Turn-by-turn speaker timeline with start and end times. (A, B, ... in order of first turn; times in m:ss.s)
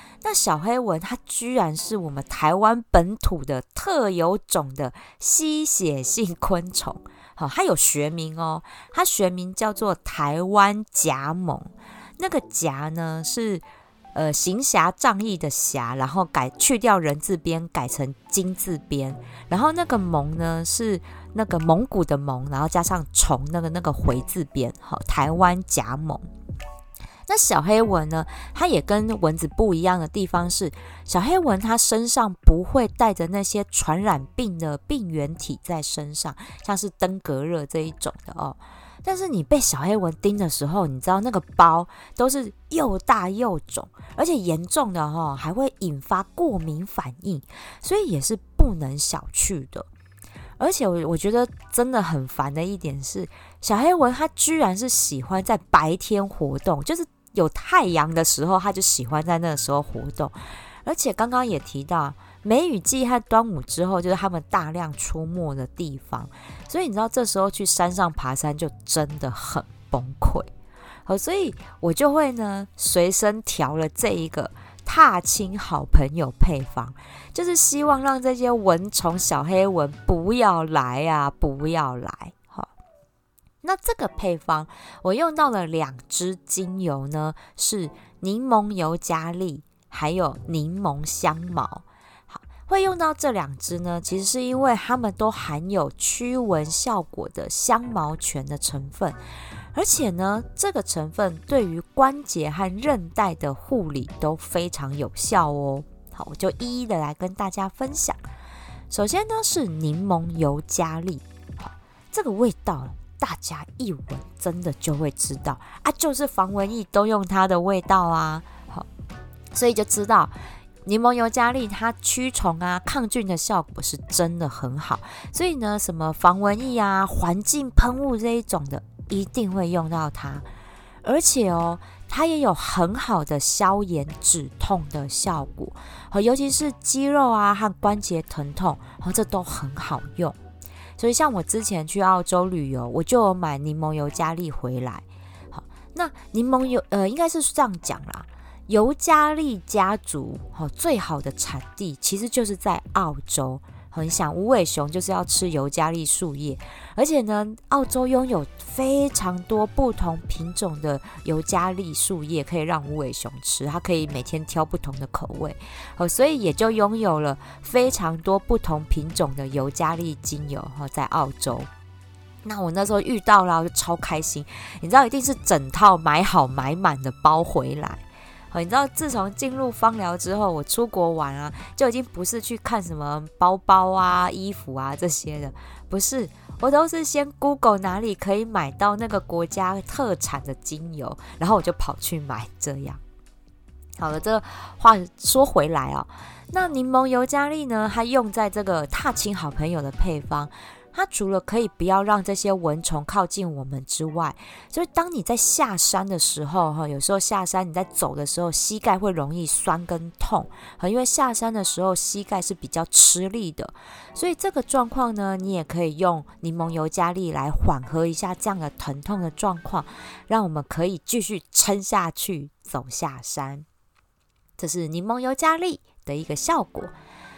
0:00.2-0:26.3 A
0:27.3-0:49.9 A
0:50.6-1:10.5 A
1:11.1-1:22.7 A
1:23.6-1:39.2 A
1:39.7-1:48.2 A
1:48.9-1:58.9 A
1:59.5-2:10.5 A
2:11.0-2:20.4 A
2:21.0-2:51.7 A
2:52.4-3:13.0 A
3:14.0-3:43.6 A
3:44.6-3:46.9 A